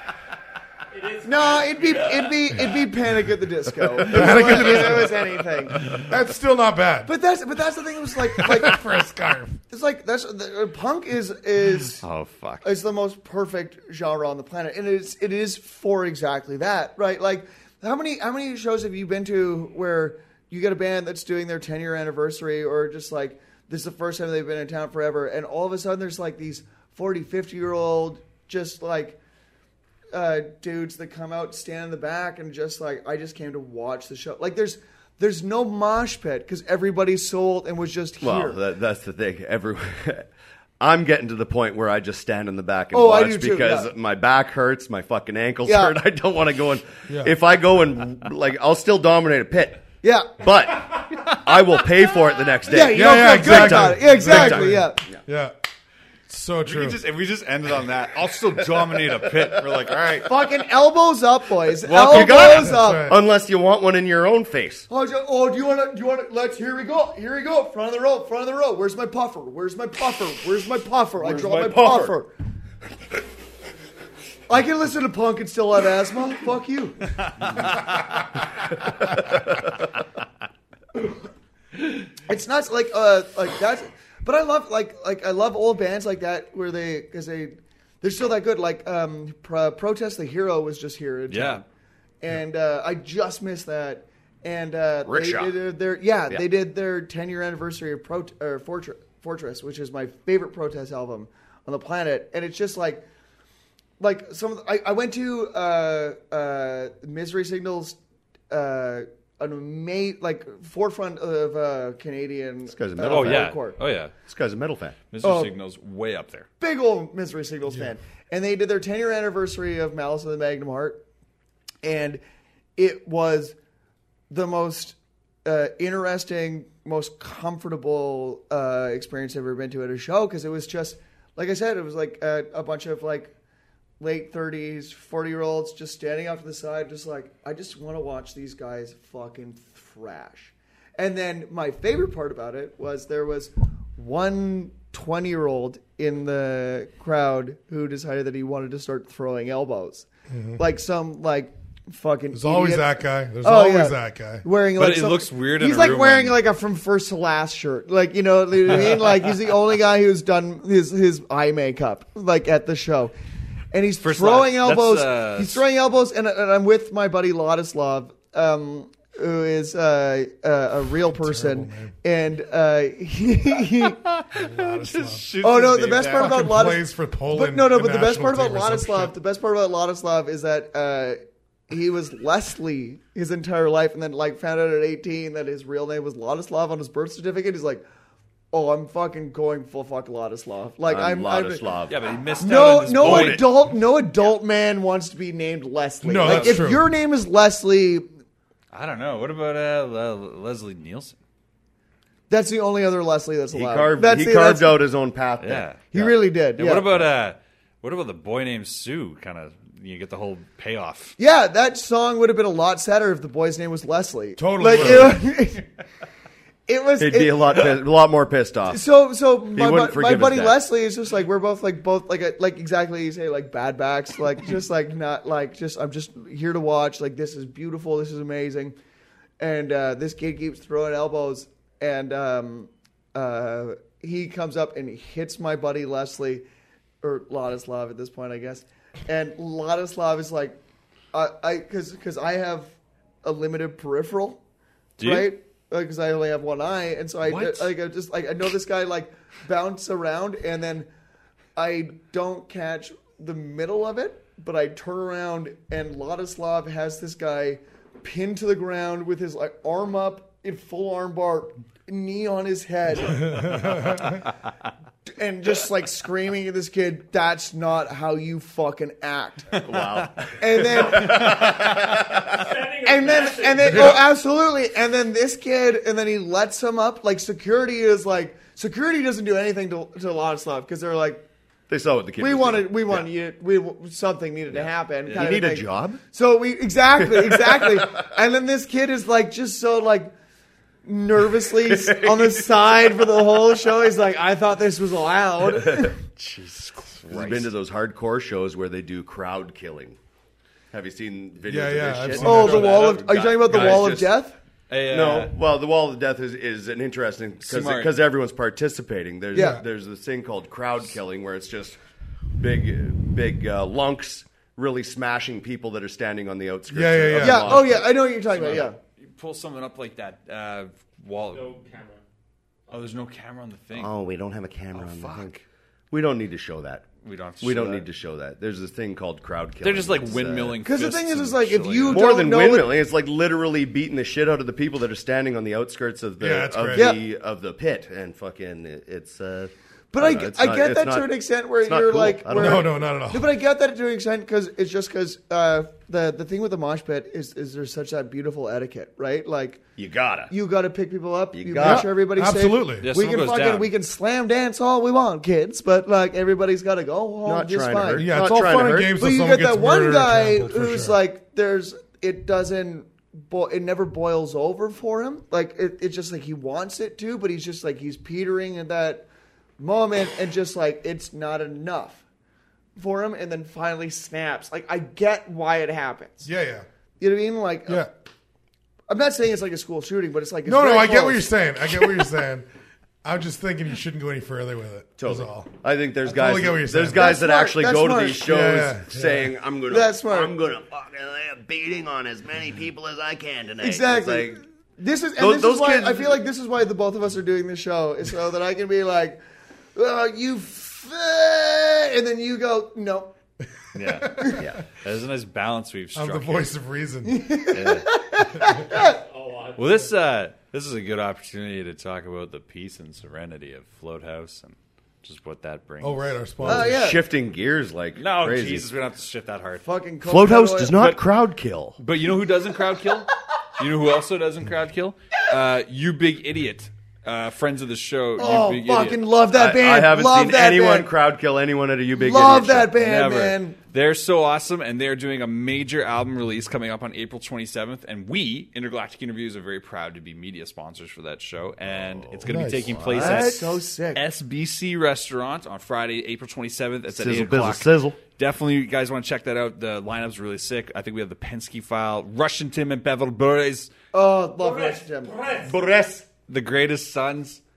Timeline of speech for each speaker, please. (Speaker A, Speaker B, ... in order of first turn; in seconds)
Speaker A: 0.9-2.3, 272.3-273.9, 321.3-322.0, 408.7-409.9, 454.4-455.6
Speaker B: 1.2-5.9, 7.1-8.8, 9.7-12.0, 12.6-29.2, 30.1-38.6, 42.9-43.9, 45.6-46.0, 50.0-50.4, 52.7-55.1, 60.2-63.1, 64.9-72.3, 74.5-77.2, 82.2-91.6, 92.2-103.0, 104.0-108.0, 108.5-113.8, 115.2-115.5, 116.6-121.0, 121.8-122.2, 122.8-123.6, 124.3-133.3, 134.0-163.1, 163.7-174.0, 175.4-187.8, 188.5-191.7, 192.4-198.1, 202.3-204.8, 205.9-207.1, 211.2-215.7, 216.7-217.8, 218.7-228.8, 229.4-236.4, 237.0-240.6, 241.1-244.4, 245.0-250.9, 251.6-264.0, 265.1-269.5, 270.4-271.7, 272.8-281.3, 282.2-290.1, 290.9-296.0, 302.2-304.4, 309.3-309.6, 317.2-318.8, 330.6-332.8, 336.7-337.0, 339.9-349.6, 350.3-358.3, 358.9-369.1, 369.6-372.0, 372.8-376.3, 377.0-377.9, 378.9-381.3, 386.9-388.3, 389.7-390.3, 393.6-399.2, 399.8-403.1, 407.1-409.0, 416.4-417.1, 419.6-420.8, 428.2-430.9, 431.9-433.6, 442.9-444.0, 453.9-455.2
Speaker C: 4.0-7.1, 8.3-9.6, 47.1-47.3, 52.9-55.5, 56.3-57.0, 62.4-63.2, 150.3-150.6, 152.3-154.4, 171.1-171.9, 174.3-175.3, 176.2-179.1, 196.0-196.8, 214.4-215.3, 263.2-264.2, 301.5-302.8, 309.4-309.6, 316.7-317.7, 336.2-336.9, 342.3-343.3, 351.6-352.9, 358.0-361.0, 376.2-376.7, 380.5-382.4, 383.0-385.5, 386.0-387.1, 388.2-389.3, 404.0-404.4, 405.9-407.2, 415.8-416.8, 442.3-442.7
Speaker D: 12.0-12.7, 56.6-60.4, 61.8-62.4, 91.3-91.6, 113.0-114.1, 115.1-116.5, 154.8-156.4, 164.0-165.6, 174.0-176.5, 191.9-193.6, 196.2-196.6, 198.7-201.2, 205.4-205.9, 206.6-211.2, 245.0-245.3, 247.3-247.7, 269.6-270.2, 285.1-285.3, 296.2-297.5, 302.2-304.0, 304.7-305.3, 307.4-307.9, 318.2-321.6, 322.7-323.9, 324.7-325.3, 327.0-327.9, 329.6-332.1, 352.8-353.7, 403.7-406.5, 407.5-407.9, 409.6-416.2, 418.0-419.7, 420.7-421.0, 421.8-429.0, 432.7-453.7, 456.3-457.4
Speaker E: 38.2-40.3, 40.8-54.7, 61.9-64.9, 71.2-72.2, 95.1-95.5, 112.7-113.6, 114.2-115.0, 190.9-192.1, 193.0-193.4, 203.5-206.2, 217.0-218.8, 219.5-220.6, 269.6-272.5, 281.7-283.1, 285.1-286.0, 287.0-288.0, 291.7-292.5, 297.1-300.0, 300.7-304.1, 304.9-311.8, 312.4-317.9, 323.7-326.9, 327.4-330.6, 331.9-342.7, 349.8-350.3, 351.3-351.9, 357.2-358.9, 385.0-394.4, 395.2-396.2, 404.4-404.6, 416.4-418.7, 420.0-421.8, 429.3-432.7, 441.7-443.4, 446.9-448.0, 455.4-456.1